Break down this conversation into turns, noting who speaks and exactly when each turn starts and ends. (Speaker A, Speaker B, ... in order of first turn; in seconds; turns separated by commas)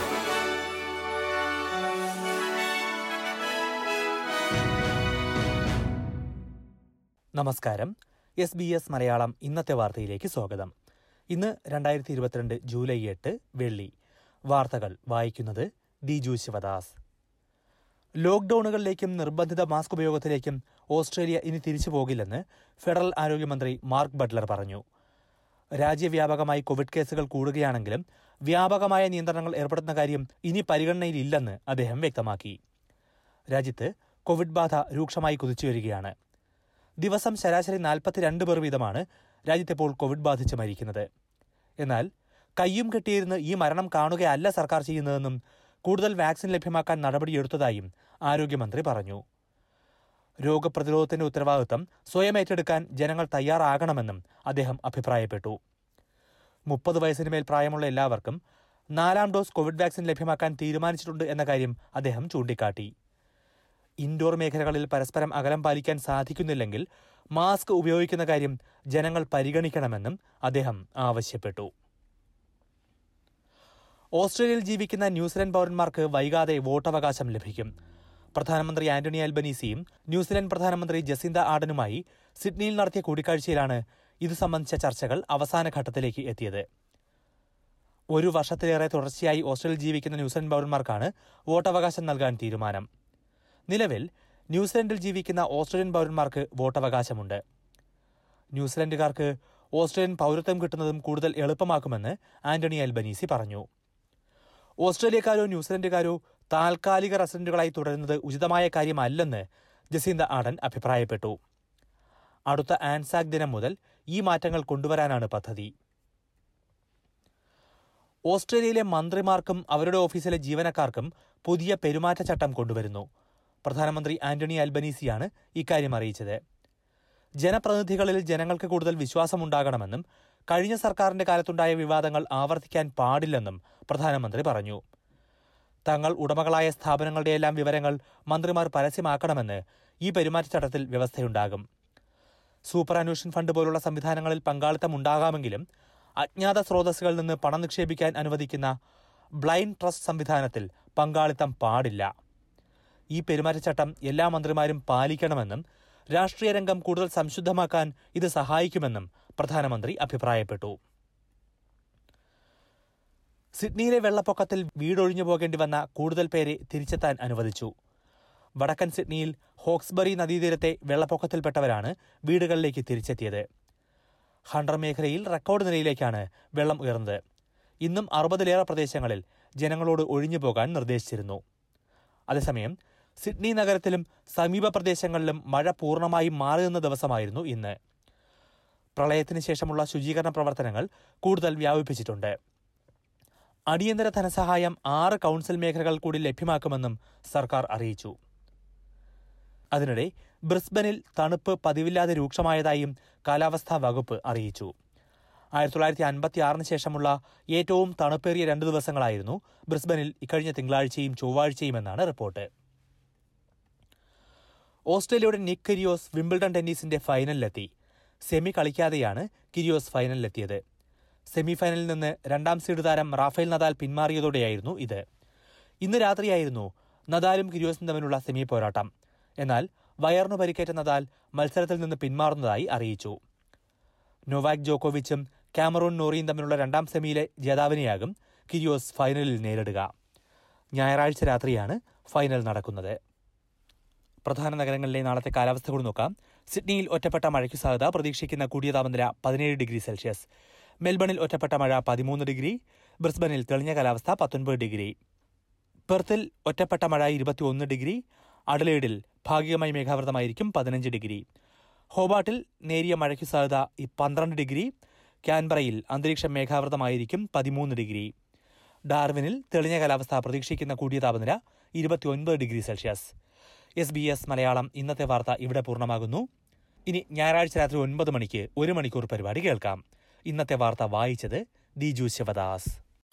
Speaker A: 7.4-10.7, Speaker A: 11.3-13.9, Speaker A: 14.5-16.9, Speaker A: 18.2-24.8, Speaker A: 25.8-32.6, Speaker A: 33.5-36.1, Speaker A: 37.0-41.0, Speaker A: 42.6-49.2, Speaker A: 50.4-55.6, Speaker A: 56.7-58.4, Speaker A: 59.0-62.9, Speaker A: 64.0-66.8, Speaker A: 67.3-71.7, Speaker A: 74.2-77.7, Speaker A: 78.3-86.6, Speaker A: 88.1-92.8, Speaker A: 93.7-97.4, Speaker A: 98.5-103.6, Speaker A: 104.8-111.3, Speaker A: 112.5-115.7, Speaker A: 118.3-123.0, Speaker A: 123.7-126.4, Speaker A: 127.4-134.8, Speaker A: 135.9-141.6, Speaker A: 142.7-145.6, Speaker A: 146.2-148.7, Speaker A: 149.4-152.1, Speaker A: 153.1-155.6, Speaker A: 156.1-160.8, Speaker A: 163.6-167.7, Speaker A: 168.6-173.4, Speaker A: 174.5-177.2, Speaker A: 177.8-181.4, Speaker A: 182.3-187.8, Speaker A: 189.0-192.3, Speaker A: 193.7-198.1, Speaker A: 199.7-204.7, Speaker A: 205.6-212.4, Speaker A: 214.9-217.7, Speaker A: 218.3-220.6, Speaker A: 221.3-225.0, Speaker A: 225.8-228.9, Speaker A: 229.4-233.2, Speaker A: 234.3-239.9, Speaker A: 240.8-242.9, Speaker A: 244.3-250.3, Speaker A: 250.8-254.9, Speaker A: 255.9-261.2, Speaker A: 261.9-264.7, Speaker A: 265.3-268.1, Speaker A: 268.9-273.1, Speaker A: 273.8-276.2, Speaker A: 276.9-282.8